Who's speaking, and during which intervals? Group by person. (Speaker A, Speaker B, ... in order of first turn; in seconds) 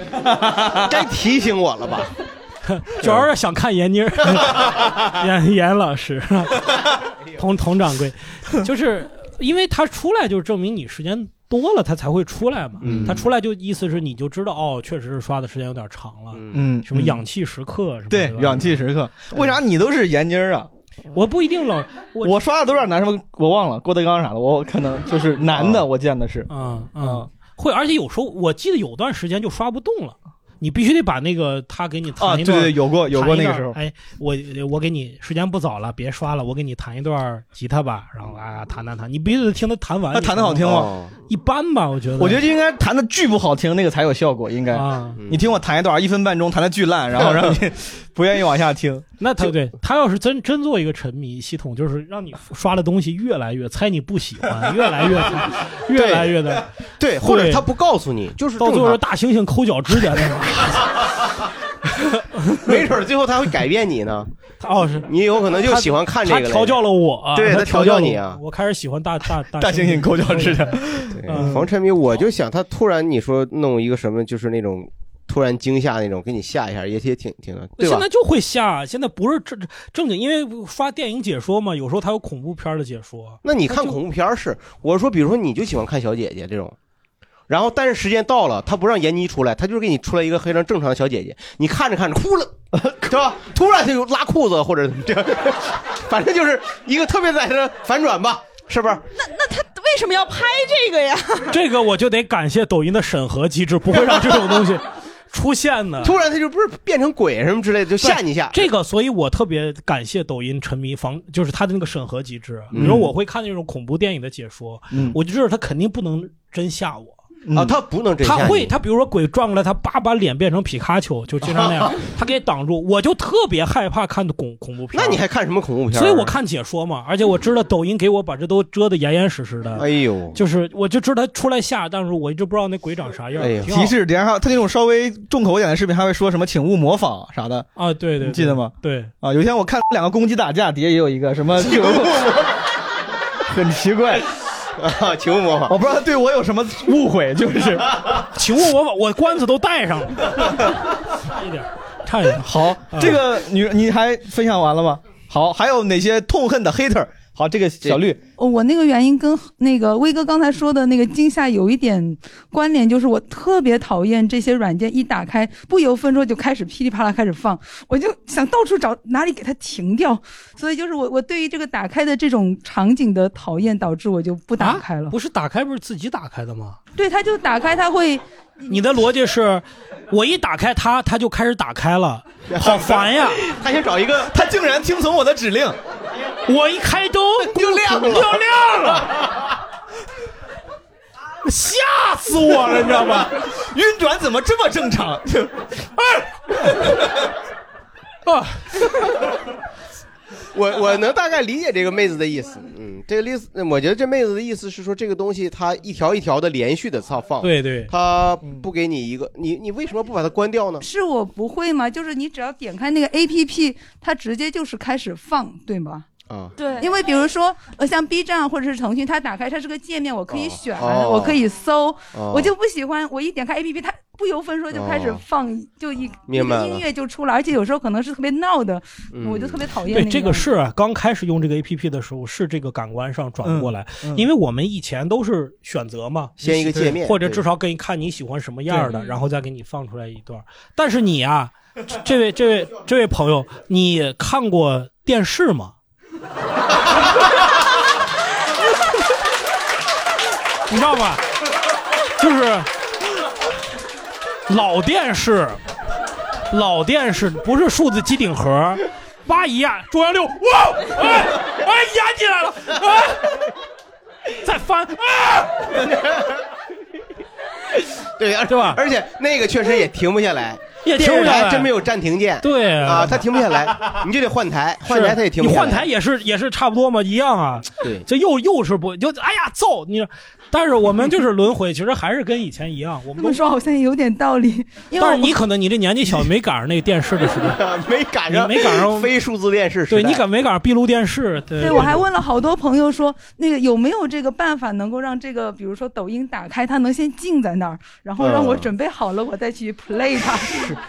Speaker A: 0.2-0.9, 16.5-17.2, 18.1-20.7, 22.2-26.5, 27.0-27.3, 32.2-33.8, 40.1-40.9, 42.2-49.1, 69.6-71.7, 112.7-113.1, 114.9-115.2, 117.5-117.8, 133.7-137.7, 138.2-142.3, 143.5-144.2, 145.7-148.0, 152.3-158.2, 184.3-185.8, 193.0-195.7, 233.4-234.3, 236.4-237.0, 238.7-238.9
Speaker B: 0.7-2.1, 12.8-13.2, 16.3-16.6, 40.6-41.1, 45.2-45.4, 47.1-47.5, 55.9-59.0, 62.6-64.3, 65.0-66.8, 67.3-68.4, 71.1-78.0, 83.4-86.8, 87.5-99.0, 106.0-108.6, 112.7-113.0, 117.5-118.7, 124.9-126.3, 129.8-130.4, 133.4-133.7, 141.6-142.6, 144.8-145.8, 182.5-184.3, 187.4-189.4, 200.5-210.8, 216.3-216.5, 220.3-221.4, 222.1-222.5, 224.7-225.2, 226.3-226.8, 229.1-229.7, 236.4-237.4, 265.9-266.3, 268.0-275.9, 287.4-290.2, 298.2-298.7
Speaker C: 2.6-6.8, 7.3-19.4, 21.1-22.3, 26.5-42.4, 44.7-45.2, 49.2-56.6, 57.2-57.6, 58.6-60.8, 64.6-71.6, 77.8-84.0, 101.5-106.1, 108.0-117.2, 118.2-125.2, 125.9-133.9, 137.8-139.1, 148.3-153.2, 174.6-176.8, 178.7-183.4, 186.5-189.2, 191.4-193.3, 198.2-198.8, 207.4-207.9, 229.9-245.7, 250.7-251.3, 252.2-252.7, 254.5-255.6, 256.5-263.2, 264.4-265.8, 268.5-268.8, 270.8-271.7, 272.4-273.2, 274.9-283.4, 285.0-287.6, 288.3-289.1, 289.9-292.0
Speaker D: 99.2-101.5, 216.6-216.9
Speaker E: 158.4-175.1, 176.9-178.8, 210.8-216.1, 216.8-230.5, 283.2-285.4, 291.6-300.8